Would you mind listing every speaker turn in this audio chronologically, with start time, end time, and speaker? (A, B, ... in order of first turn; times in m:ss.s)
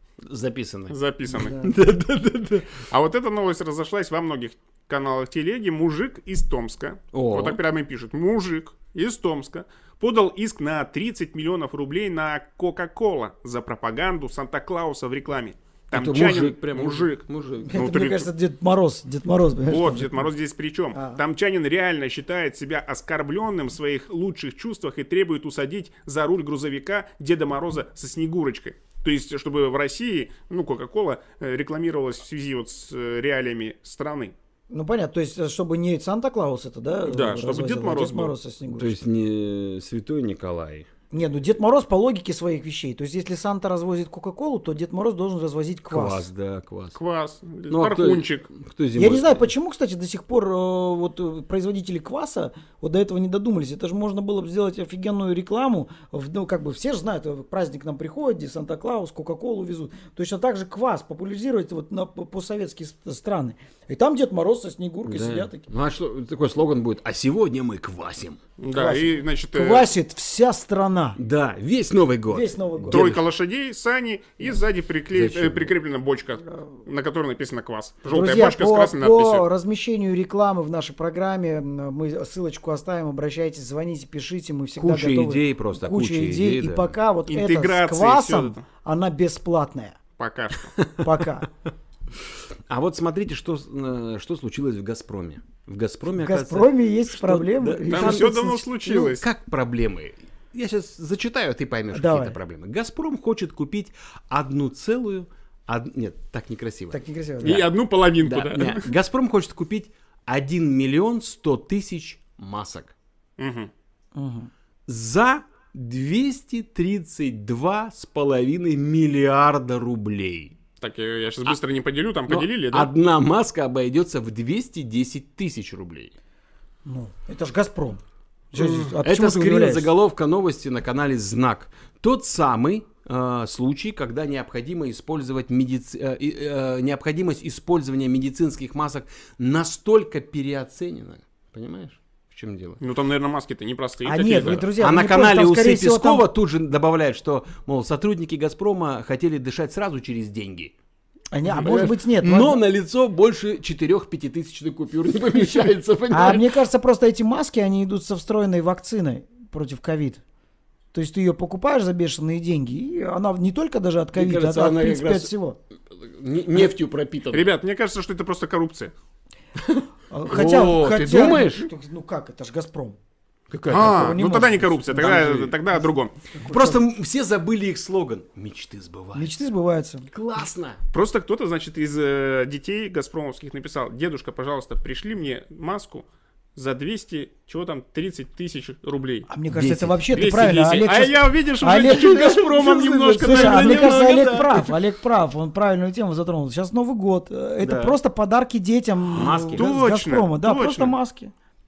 0:00.2-0:02.7 A
0:00.9-0:01.6 B
0:01.3-0:01.7 C
0:02.9-0:18.3 B
0:07.1-0:07.6 A
0:15.9-0:17.9 A
0:17.6-0:20.2 C
0:19.7-0:34.3 B
0:20.9-0:21.2 C
0:34.7-0:39.0 C
0:37.1-0:38.3 B
0:38.7-0:40.9 A
0:41.1-0:46.3 C
0:45.9-0:47.0 A
0:47.0-0:48.5 B
0:47.7-0:49.4 A
0:49.0-1:05.6 C
1:05.0-1:08.4 A
1:08.6-1:09.9 B
1:08.7-1:11.2 C
1:11.2-1:13.2 A
1:12.3-1:13.1 C
1:12.9-1:19.4 B
1:15.1-1:15.7 A
1:18.1-1:30.0 C
1:24.8-1:26.9 A
1:27.3-1:28.6 B
1:30.2-1:30.8 B
1:30.8-1:31.0 A
1:31.0-1:31.5 C
1:32.7-1:47.0 A
1:36.1-1:38.7 C
1:37.9-1:39.2 B
1:41.9-1:42.4 C
1:46.9-1:47.7 C
1:47.4-1:48.9 B
1:48.2-1:52.9 A
1:53.4-1:53.7 B
1:54.1-1:54.5 C
1:54.9-2:00.5 A
2:00.8-2:02.9 B
2:02.3-2:06.1 A
2:06.8-2:08.0 C
2:08.5-2:09.9 C
2:08.5-2:09.0 B
2:09.0-2:22.8 A
2:22.8-2:24.7 B
2:24.0-2:26.2 C
2:24.3-2:30.7 A
2:31.3-2:32.6 C
2:31.5-2:36.5 A
2:35.6-2:40.2 C
2:40.9-2:45.6 C
2:44.1-2:45.3 A
2:45.9-2:47.5 A
2:47.3-2:48.9 B
2:49.6-2:51.7 A
2:50.1-2:53.0 C
2:53.5-2:54.2 A
2:53.6-2:55.8 C
2:53.7-2:56.2 B
2:54.9-2:55.5 A
2:56.4-2:56.8 C
2:56.4-2:59.3 A
2:59.1-3:00.1 C
3:00.1-3:00.8 A
3:00.9-3:06.0 B
3:06.6-3:09.3 B
3:09.3-3:12.5 C
3:09.5-3:10.0 A
3:10.1-3:14.0 B
3:11.6-3:14.8 A
3:13.2-3:21.3 C
3:17.6-3:17.9 A
3:19.1-3:19.7 A
3:19.5-3:20.9 B